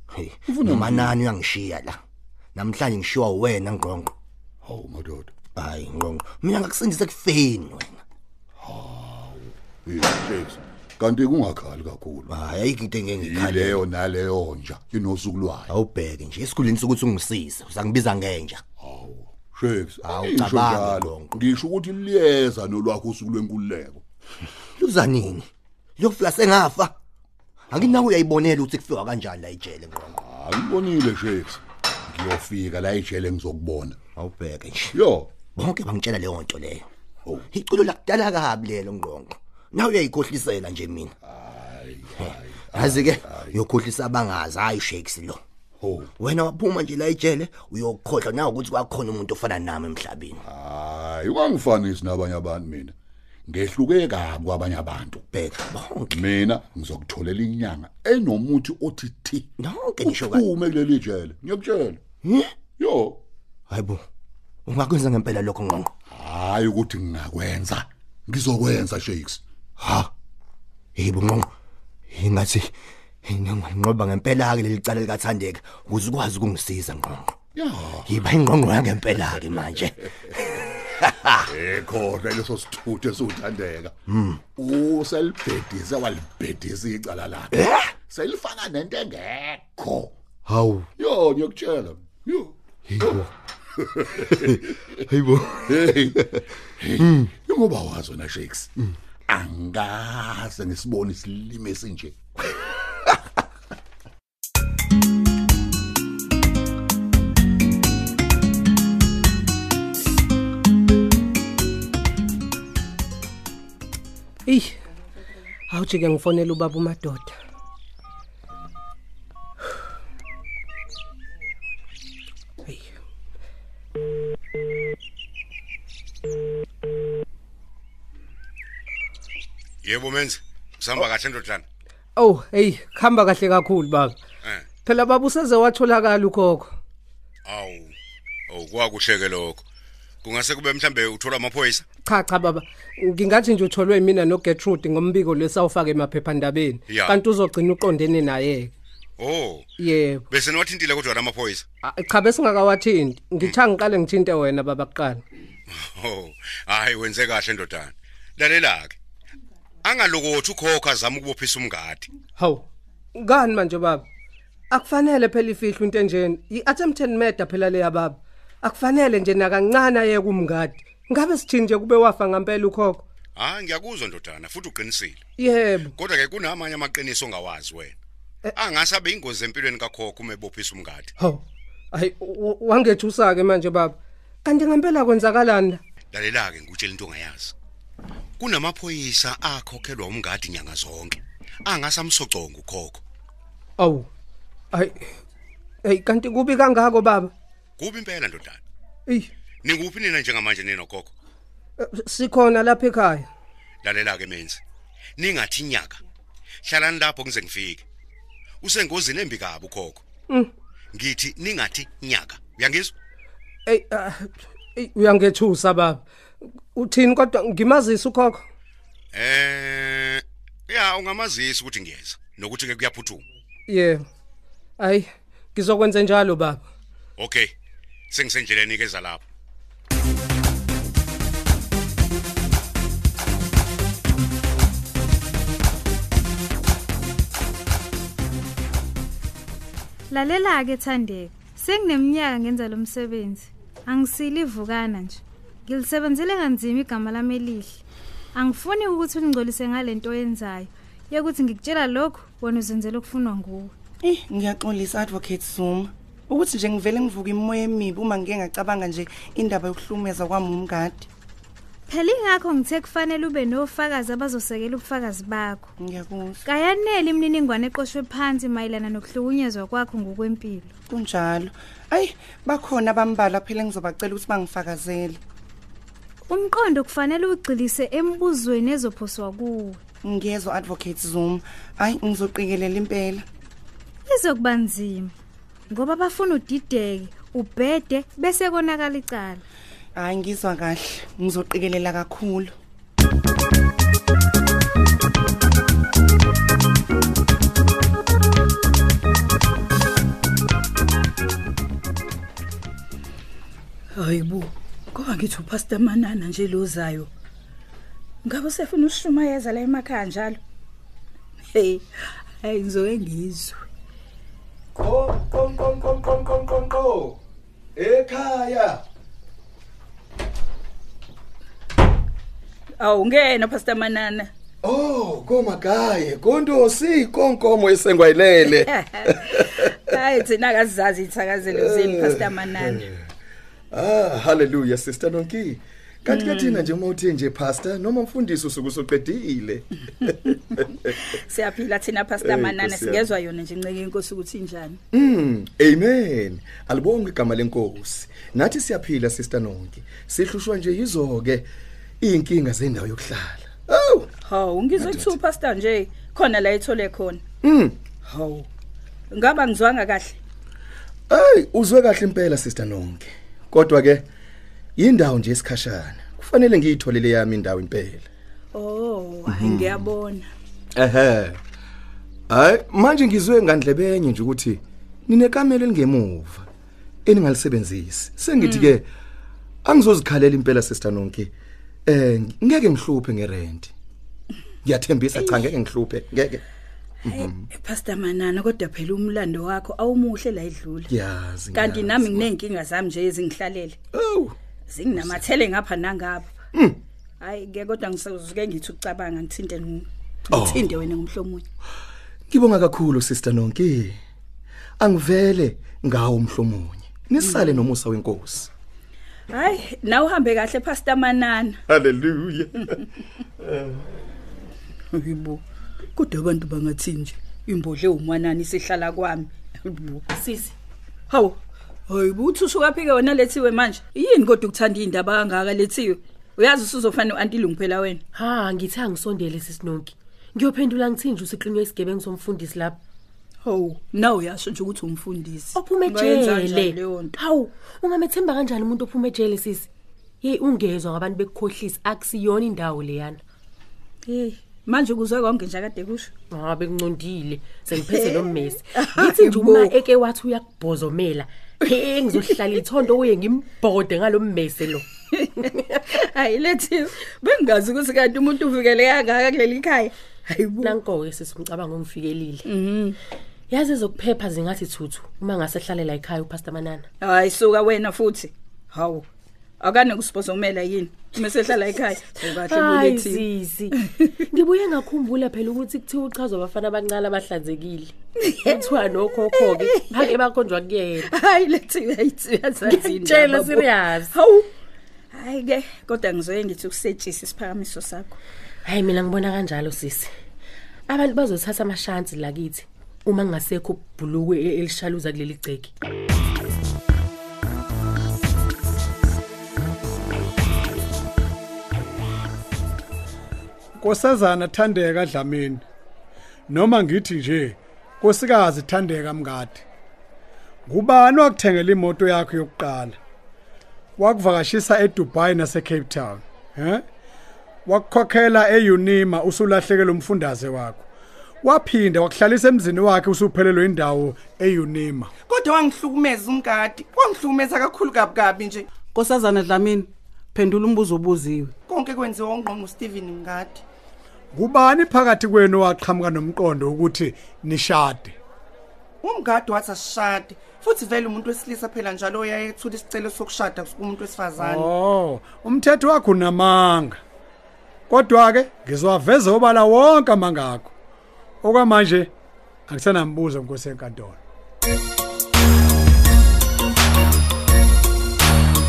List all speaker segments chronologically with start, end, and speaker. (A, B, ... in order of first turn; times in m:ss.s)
0:00.1-0:02.0 A
0:00.5-0:01.2 B
0:02.6-0:04.1 A
0:04.6-0:05.3 B
0:05.6-0:08.0 A
0:08.6-0:12.3 B
0:12.3-0:13.8 A
0:13.2-0:15.7 B
0:15.7-0:18.6 A
0:18.8-0:24.0 B
0:20.0-0:21.4 A
0:24.7-0:27.0 A
0:27.7-0:30.2 A
0:30.2-0:34.0 B
0:34.2-0:35.0 A
0:34.9-0:35.3 B
0:35.5-0:36.9 A
0:37.5-0:41.2 A
0:41.2-0:43.6 B
0:42.2-0:45.4 A
0:45.8-0:46.1 B
0:46.2-0:50.4 A
0:50.5-0:52.9 B
0:53.5-0:55.3 B
0:55.3-0:56.2 A
0:56.1-0:59.5 B
0:59.6-1:00.5 A
1:00.0-1:02.0 B
1:02.2-1:02.6 A
1:02.8-1:03.2 B
1:03.7-1:04.0 A
1:04.7-1:05.9 A
1:06.1-1:09.4 B
1:09.8-1:10.1 A
1:11.0-1:11.5 A
1:12.1-1:17.4 A
1:17.6-1:18.1 B
1:18.0-1:21.4 A
1:21.5-1:24.0 B
1:24.1-1:24.4 A
1:24.6-1:30.2 B
1:27.5-1:27.8 A
1:30.5-1:30.8 A
1:31.0-1:33.2 B
1:33.9-1:34.8 B
1:34.3-1:35.2 A
1:35.7-1:38.7 B
1:39.3-1:42.2 B
1:54.5-1:54.8 C
1:55.7-1:57.4 C
2:02.7-2:02.9 C
2:09.8-2:11.6 D
2:12.2-2:14.2 C
2:14.8-2:16.7 C
2:17.5-2:18.0 D
2:18.5-2:19.6 D
2:20.2-2:21.9 D
2:22.0-2:28.7 C
2:26.9-2:27.2 D
2:29.2-2:29.7 D
2:29.8-2:30.2 C
2:30.3-2:31.6 D
2:31.8-2:35.2 C
2:35.7-2:39.0 D
2:39.8-2:42.1 D
2:42.4-2:44.0 C
2:44.7-2:53.0 C
2:53.4-2:55.2 D
2:55.4-2:56.0 C
2:56.0-2:58.0 D
2:58.6-3:01.1 D
3:01.2-3:05.8 C
3:06.1-3:07.5 D
3:08.4-3:13.0 D
3:13.8-3:14.1 C
3:14.7-3:15.1 C
3:15.8-3:17.3 C
3:17.8-3:18.6 D
3:19.6-3:21.1 D
3:21.8-3:23.3 C
3:23.8-3:24.6 D
3:25.2-3:26.0 D
3:26.6-3:27.8 D
3:28.6-3:30.0 D
3:30.9-3:32.9 D
3:33.7-3:36.0 C
3:36.7-3:38.4 C
3:39.1-3:43.2 D
3:43.7-3:44.0 C
3:44.8-3:46.6 C
3:47.2-3:47.5 D
3:48.1-3:49.2 D
4:00.1-4:07.8 E
4:08.4-4:13.7 E
4:14.0-4:21.1 F
4:21.9-4:25.7 E
4:25.8-4:26.4 F
4:26.4-4:30.7 E
4:30.9-4:35.2 F
4:36.3-4:39.8 E
4:40.0-4:43.3 F
4:44.1-4:45.1 E
4:45.7-4:49.4 E
4:50.0-4:52.6 F
5:04.0-5:07.1 G
5:08.2-5:10.4 G
5:11.5-5:11.9 G
5:12.4-5:13.6 G
5:14.8-5:17.2 H
5:17.8-5:18.8 H
5:22.8-5:24.3 G
5:24.6-5:29.7 H
5:28.5-5:32.9 G
5:31.5-5:33.0 H
5:33.7-5:40.8 H
5:36.1-5:36.7 G
5:40.9-5:44.8 G
5:42.2-5:43.1 H
5:44.9-5:51.5 H
5:52.0-5:54.1 H
5:54.3-5:57.2 G
5:54.8-5:55.2 H
5:57.4-5:57.8 H
5:58.1-5:58.5 G
5:59.1-6:00.2 G
6:01.1-6:04.1 H
6:04.8-6:08.1 H
6:08.5-6:10.3 G
6:09.3-6:09.9 H
6:10.8-6:11.4 H
6:12.3-6:16.5 H
6:17.1-6:18.9 H
6:18.4-6:18.8 G
6:19.6-6:21.3 H
6:21.9-6:23.7 H
6:24.6-6:26.4 H
6:25.2-6:25.5 G
6:27.0-6:27.5 H
6:27.0-6:30.9 G
6:30.9-6:32.3 H
6:31.5-6:33.8 G
6:33.9-6:34.4 H
6:34.7-6:36.3 G
6:36.5-6:36.8 H
6:37.2-6:41.4 G
6:40.3-6:40.8 H
6:42.3-6:44.0 H
6:44.8-6:48.5 H
6:47.2-6:47.6 G
6:49.3-6:51.6 G
6:51.7-6:52.8 H
6:54.9-6:55.4 G
6:56.0-7:00.0 G
7:00.1-7:00.6 I
7:01.1-7:01.4 G
7:01.9-7:08.0 G
7:08.1-7:12.8 I
7:13.4-7:17.1 G
7:15.6-7:19.7 I
7:20.2-7:23.2 I
7:24.1-7:26.1 G
7:26.3-7:34.8 I
7:27.8-7:29.7 G
7:35.9-7:40.8 G
7:40.6-7:42.5 I
7:42.5-7:43.0 G
7:43.5-7:46.9 I
7:47.0-7:49.0 G
7:49.6-7:53.2 G
7:52.4-7:53.8 I
7:54.3-8:01.1 I
7:58.3-7:58.7 G
7:59.4-8:00.2 G
8:01.0-8:04.5 G
8:02.6-8:04.1 I
8:05.1-8:08.2 G
8:08.6-8:10.1 I
8:10.9-8:15.7 I
8:23.8-8:25.6 J
8:26.5-8:29.6 J
8:30.7-8:33.0 J
8:34.0-8:36.8 J
8:37.7-8:40.9 J
8:41.4-8:45.1 J
8:45.3-8:48.7 F
8:49.0-8:51.5 K
8:51.7-8:53.6 F
8:54.3-8:58.2 J
8:59.0-9:04.7 F
9:04.4-9:07.0 J
9:07.9-9:10.7 J
9:11.4-9:12.1 J
9:12.7-9:14.2 J